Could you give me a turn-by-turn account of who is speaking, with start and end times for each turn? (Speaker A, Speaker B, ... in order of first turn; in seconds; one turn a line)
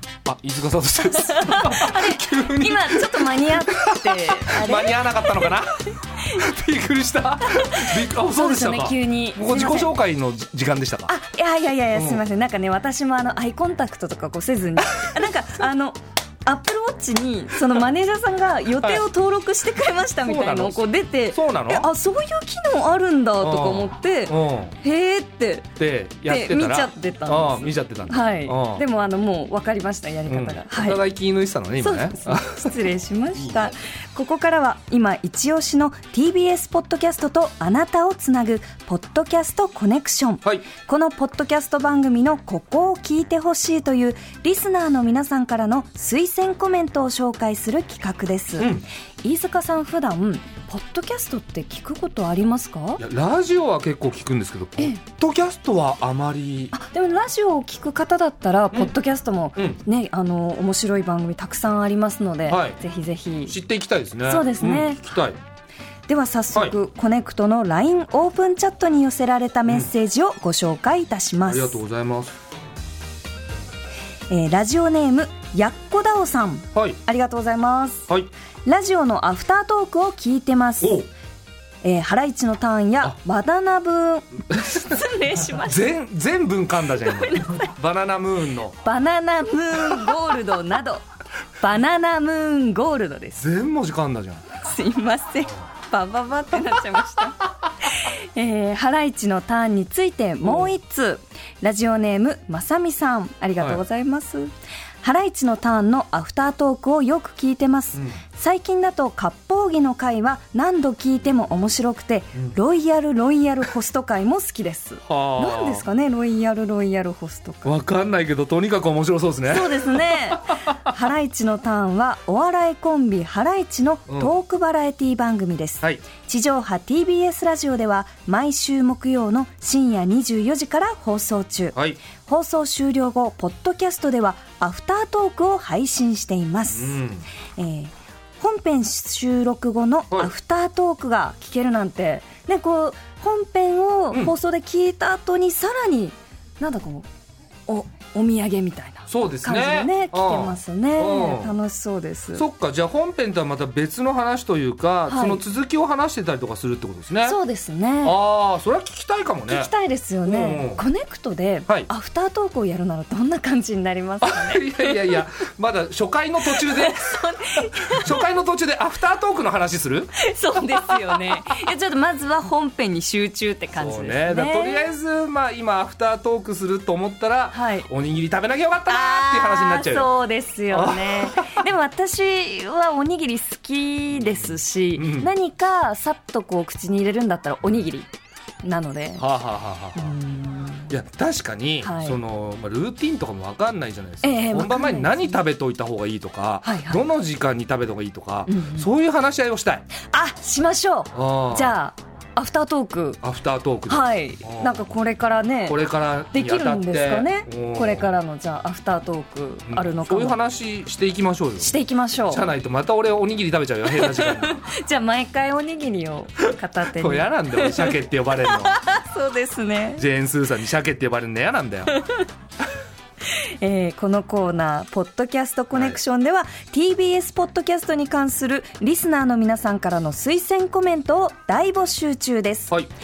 Speaker A: 0.2-11.1
Speaker B: 1.1-5.6
Speaker B: 7.5-9.9
Speaker B: 11.1-25.7
Speaker A: 11.9-12.2
Speaker A: 20.2-21.9
Speaker A: 23.4-24.8
Speaker A: 25.8-28.8
Speaker B: 26.2-31.0
Speaker A: 30.3-32.8
Speaker B: 31.8-53.0
Speaker A: 48.6-48.9
Speaker A: 53.0-56.7
Speaker B: 56.7-63.6
Speaker A: 62.5-62.8
Speaker A: 63.5-65.4
Speaker B: 64.2-65.1
Speaker B: 66.1-71.8
Speaker A: 71.5-72.3
Speaker B: 74.3-78.1
Speaker B: 78.7-81.0
Speaker A: 80.8-81.1
Speaker B: 81.8-85.9
Speaker A: 84.5-84.9
Speaker A: 85.5-88.8
Speaker B: 87.0-87.7
Speaker B: 88.8-91.0
Speaker B: 91.6-93.5
Speaker A: 93.4-94.5
Speaker B: 94.6-117.8
Speaker A: 100.4-100.7
Speaker A: 115.1-115.8
Speaker A: 117.7-120.7
Speaker B: 119.5-137.0
Speaker A: 136.7-137.2
Speaker B: 137.6-147.1
Speaker B: 147.7-152.5
Speaker A: 149.1-151.6
Speaker A: 152.3-157.4
Speaker B: 155.1-155.4
Speaker B: 157.2-158.2
Speaker A: 158.0-159.7
Speaker B: 159.5-165.2
Speaker A: 160.3-160.8
Speaker A: 164.2-171.2
Speaker B: 166.4-168.2
Speaker B: 170.2-174.9
Speaker A: 173.7-180.1
Speaker B: 177.5-177.9
Speaker B: 178.9-188.1
Speaker A: 180.7-181.6
Speaker A: 184.2-185.3
Speaker B: 188.6-189.3
Speaker A: 189.2-190.2
Speaker B: 190.0-190.9
Speaker A: 190.9-199.8
Speaker B: 191.8-192.2
Speaker B: 194.2-195.4
Speaker B: 196.6-197.1
Speaker B: 198.5-198.9
Speaker B: 200.1-203.2
Speaker A: 201.1-201.8
Speaker A: 203.2-204.9
Speaker B: 203.9-205.8
Speaker A: 205.7-208.1
Speaker B: 206.3-210.4
Speaker A: 209.7-211.7
Speaker B: 211.6-212.5
Speaker A: 212.3-214.6
Speaker B: 213.9-220.1
Speaker A: 216.4-218.8
Speaker A: 220.0-221.9
Speaker B: 221.9-222.3
Speaker B: 223.3-232.7
Speaker A: 225.7-226.0